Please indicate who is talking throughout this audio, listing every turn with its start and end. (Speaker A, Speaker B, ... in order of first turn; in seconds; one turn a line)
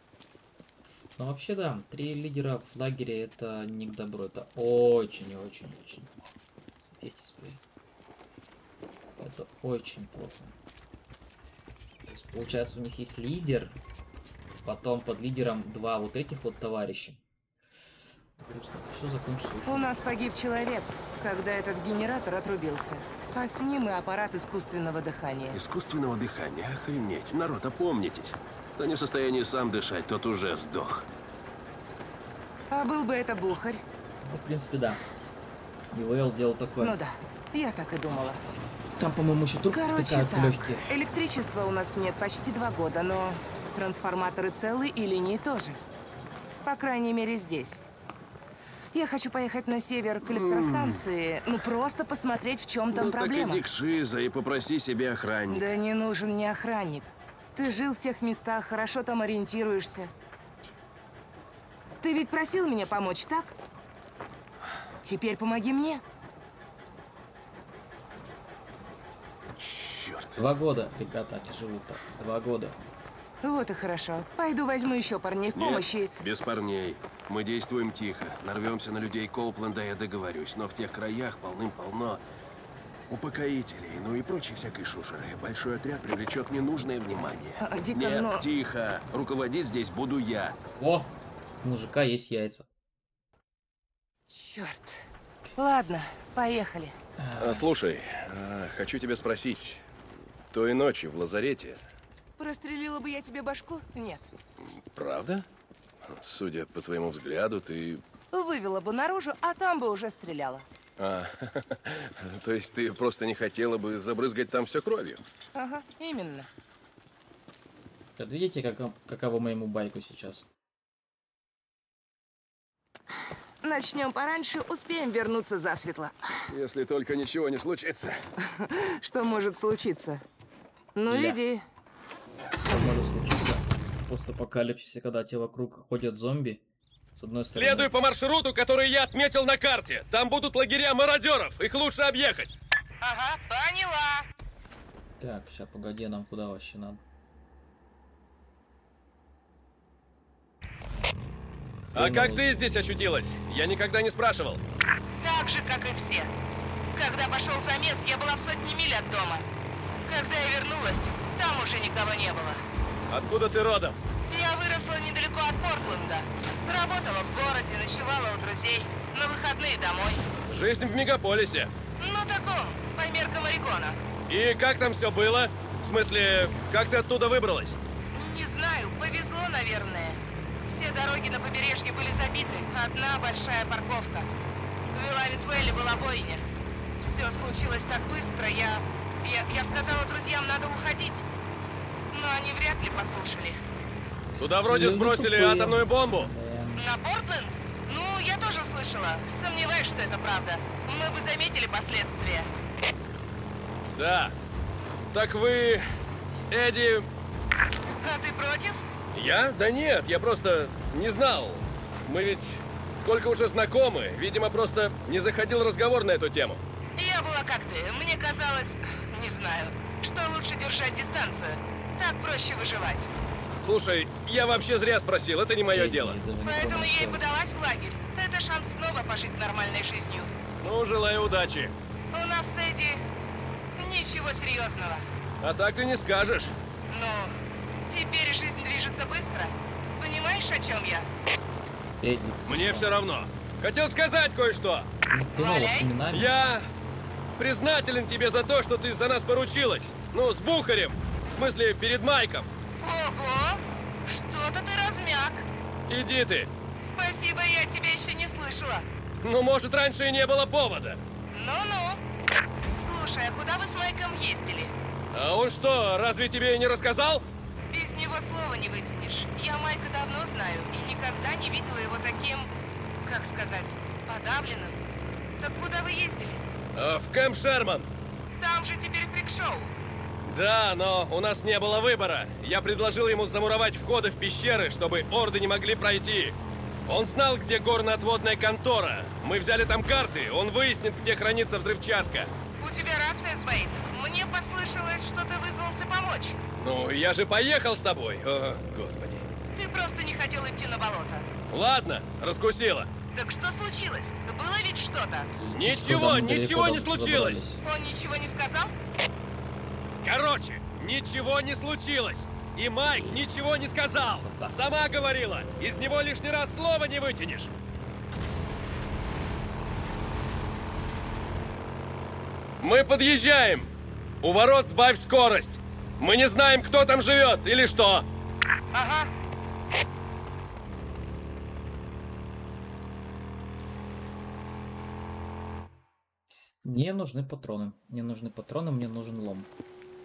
Speaker A: 1.1-6.1
Speaker A: 6.8-7.6
Speaker A: 9.2-10.5
Speaker A: 12.1-13.8
Speaker A: 14.6-17.2
Speaker A: 18.4-19.9
Speaker B: 19.6-25.6
Speaker C: 25.5-31.1
Speaker B: 32.7-33.8
Speaker A: 34.2-35.0
Speaker A: 35.9-37.0
Speaker B: 36.8-38.4
Speaker A: 39.0-40.9
Speaker B: 39.7-45.8
Speaker B: 46.6-47.9
Speaker B: 48.9-53.6
Speaker C: 50.2-51.0
Speaker C: 52.9-55.8
Speaker B: 55.5-60.1
Speaker B: 62.0-63.5
Speaker B: 65.0-66.0
Speaker C: 69.5-70.4
Speaker A: 70.3-72.8
Speaker B: 73.4-76.1
Speaker C: 75.5-82.2
Speaker C: 83.1-90.6
Speaker B: 87.6-88.5
Speaker A: 90.8-92.7
Speaker B: 94.3-97.0
Speaker A: 97.2-97.7
Speaker C: 97.4-99.8
Speaker C: 100.5-101.8
Speaker B: 102.4-104.2
Speaker C: 104.6-105.5
Speaker C: 106.0-108.0
Speaker B: 108.3-110.7
Speaker C: 111.0-115.2
Speaker B: 115.5-116.5
Speaker A: 118.2-120.5
Speaker B: 123.6-126.2
Speaker C: 126.5-128.2
Speaker B: 128.4-130.2
Speaker B: 130.9-131.6
Speaker A: 131.1-131.4
Speaker A: 132.6-136.6
Speaker A: 137.1-137.9
Speaker C: 137.5-142.5
Speaker B: 143.0-144.2
Speaker A: 145.2-147.0
Speaker A: 151.9-152.5
Speaker C: 151.9-154.6
Speaker B: 155.2-156.3
Speaker B: 156.9-159.5
Speaker B: 160.1-162.6
Speaker C: 163.1-164.0
Speaker B: 164.3-170.2
Speaker C: 170.5-171.7
Speaker B: 172.0-174.0
Speaker C: 174.3-177.8
Speaker B: 178.1-184.3
Speaker B: 184.9-186.4
Speaker B: 187.0-191.2
Speaker B: 192.1-193.6
Speaker C: 194.4-196.3
Speaker A: 194.7-196.8
Speaker B: 196.8-202.5
Speaker C: 203.9-204.3
Speaker C: 205.1-207.1
Speaker B: 208.0-208.9
Speaker C: 209.1-216.6
Speaker B: 217.0-223.1
Speaker C: 223.6-226.2
Speaker A: 225.7-227.2
Speaker B: 226.4-230.3
Speaker C: 230.6-231.7
Speaker B: 232.1-233.0
Speaker B: 233.8-235.1
Speaker C: 235.4-236.6
Speaker B: 236.9-237.4
Speaker B: 237.9-241.1
Speaker A: 242.0-242.9
Speaker C: 242.4-244.9
Speaker A: 245.1-246.3
Speaker B: 245.4-245.9
Speaker C: 246.1-246.7
Speaker C: 247.3-252.5
Speaker B: 252.8-255.4
Speaker C: 255.9-256.5
Speaker B: 256.8-258.9
Speaker C: 259.2-261.0
Speaker B: 261.3-262.0
Speaker B: 262.7-264.7
Speaker C: 265.1-267.2
Speaker B: 267.7-272.5
Speaker B: 273.0-274.8
Speaker B: 275.4-276.4
Speaker C: 276.7-277.9
Speaker B: 278.4-279.7
Speaker C: 280.2-292.3
Speaker B: 292.6-296.4
Speaker C: 296.6-299.3
Speaker B: 299.5-301.3
Speaker C: 301.5-302.9
Speaker B: 303.1-305.3
Speaker A: 305.3-307.6
Speaker C: 305.5-307.4
Speaker B: 307.6-308.7
Speaker C: 310.0-317.5
Speaker A: 312.9-313.3
Speaker A: 314.1-314.6
Speaker C: 322.6-323.7
Speaker C: 324.2-328.1
Speaker B: 328.7-329.1
Speaker A: 336.6-339.5